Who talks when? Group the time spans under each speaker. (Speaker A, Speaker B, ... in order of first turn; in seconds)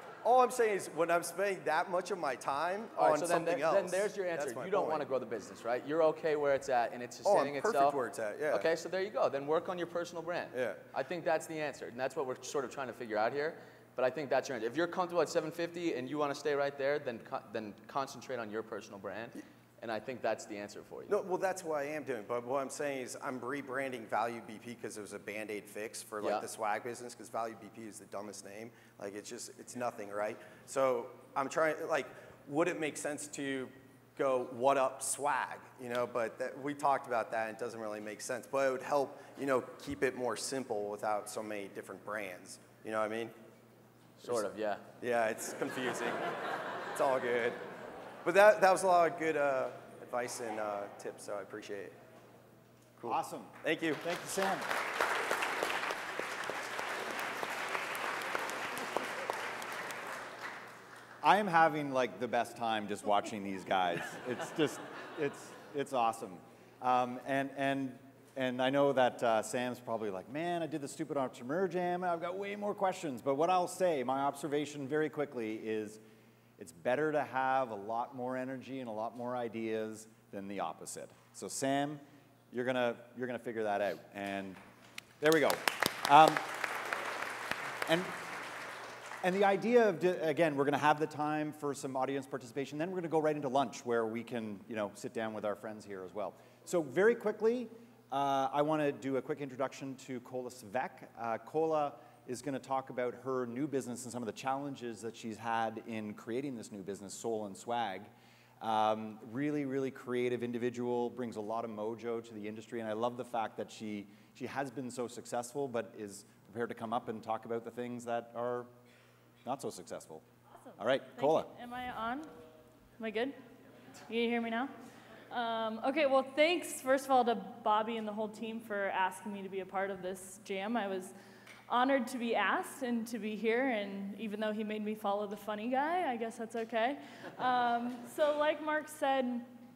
Speaker A: 0.2-5.0, 7.2-8.7, 10.5-10.8, 21.1-43.3, 45.0-46.3, 46.9-47.6, 48.2-52.0, 53.0-54.0
Speaker B: 3.0-8.0, 8.5-21.2, 44.2-44.8
Speaker C: 53.0-54.7, 61.2-76.0, 76.6-84.6, 85.2-86.6, 87.8-88.2, 89.2-118.7, 119.4-120.2, 120.8-121.5
Speaker D: 120.6-122.3, 123.0-123.3, 124.1-124.7, 125.3-131.1, 131.7-139.5